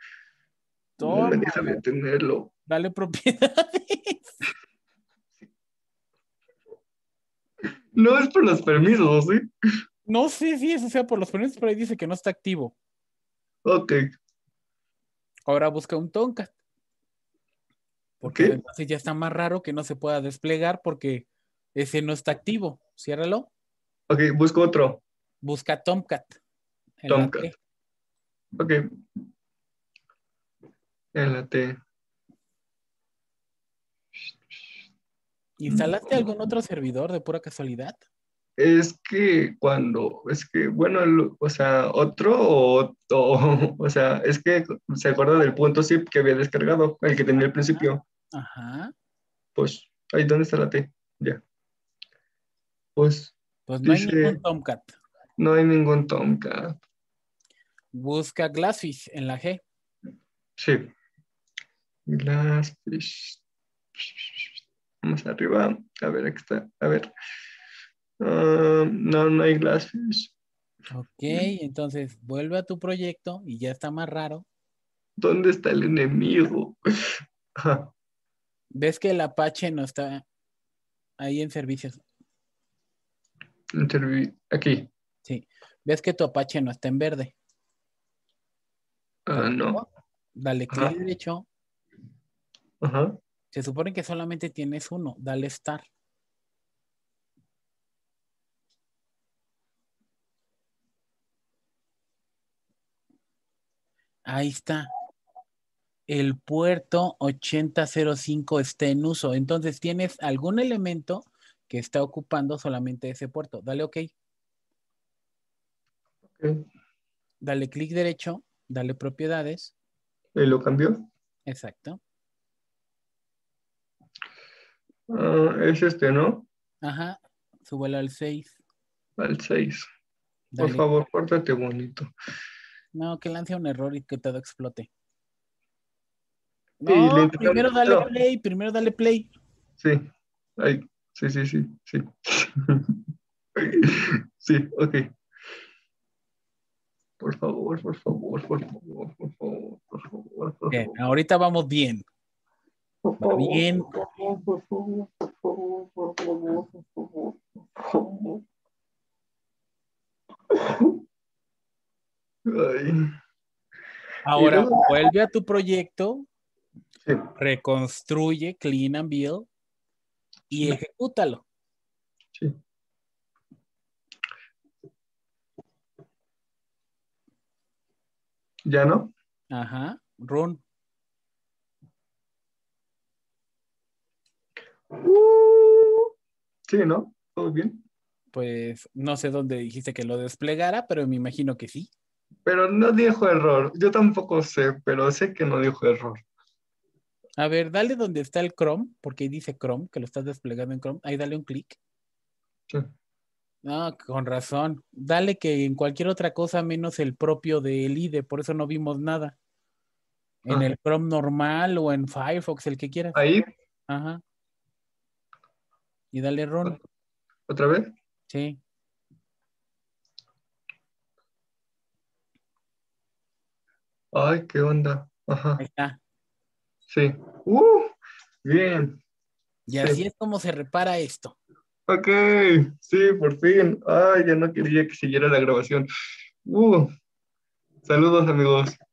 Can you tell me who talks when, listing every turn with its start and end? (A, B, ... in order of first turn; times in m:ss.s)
0:01.0-0:01.8 A
0:01.0-0:02.5 B
0:02.7-0:04.4 A
0:08.0-0:09.5 B
0:10.1-0:12.8 A
0:13.6-0:14.0 B
0:15.5-0:16.5 A
0:18.2-0:23.5 A
0:18.3-0:18.6 B
0:24.1-0:25.0 B
0:25.4-0:26.4 A
0:27.0-0:27.6 A
0:27.1-0:27.5 B
0:28.6-0:28.9 B
0:31.2-0:31.8 B
0:35.6-0:38.0 A
0:35.7-0:36.3 B
0:38.6-0:48.0 B
0:47.7-0:48.9 A
0:49.6-0:51.4 B
0:53.0-0:54.4 B
0:53.7-0:55.0 A
0:55.4-0:56.8 B
0:57.9-0:59.6 A
1:00.6-1:00.9 B
1:02.1-1:03.4 B
1:04.0-1:07.1 B
1:08.2-1:10.4 B
1:10.9-1:14.4 A
1:15.2-1:17.9 B
1:18.7-1:20.2 A
1:21.2-1:22.0 A
1:23.7-1:24.9 B
1:25.2-1:27.4 A
1:29.3-1:29.8 B
1:29.7-1:31.5 A
1:32.8-1:33.2 B
1:33.5-1:35.8 A
1:44.3-1:44.9 A
1:46.1-1:54.1 A
1:56.3-1:56.6 B
1:57.4-1:59.7 A
2:00.4-2:01.0 B
2:01.5-2:02.0 A
2:05.1-2:06.5 B
2:06.8-2:08.6 A
2:09.2-2:09.9 B
2:10.5-2:10.8 A
2:10.6-2:12.1 B
2:12.9-2:14.9 A
2:16.8-2:19.3 A
2:16.9-2:18.1 B
2:19.8-2:20.1 B
2:20.6-2:23.0 B
2:23.6-2:25.1 B
2:27.2-2:30.9 B
2:30.7-2:32.0 A
2:33.0-2:38.4 B
2:33.2-2:34.0 A
2:40.5-2:41.0 B
2:42.5-2:43.1 B
2:44.2-2:46.3 A
2:44.4-2:44.9 B
2:47.4-2:49.5 A
2:50.5-2:51.4 A
2:58.7-2:59.1 B
2:59.5-3:00.6 A
3:04.9-3:06.1 B
3:06.7-3:07.8 B
3:08.3-3:11.9 A
3:12.5-3:16.2 B
3:17.4-3:21.8 A
3:23.6-3:29.4 A
3:30.4-3:33.3 A
3:33.1-3:33.5 B
3:33.9-3:34.2 A
3:36.1-3:36.8 A
3:37.5-3:37.9 B
3:38.3-3:38.6 A
3:44.1-3:45.6 B
3:45.6-3:46.0 A
3:46.9-3:49.0 B
3:49.7-3:51.4 A
3:51.9-3:55.9 B
3:56.4-3:56.9 B
3:57.8-3:58.8 B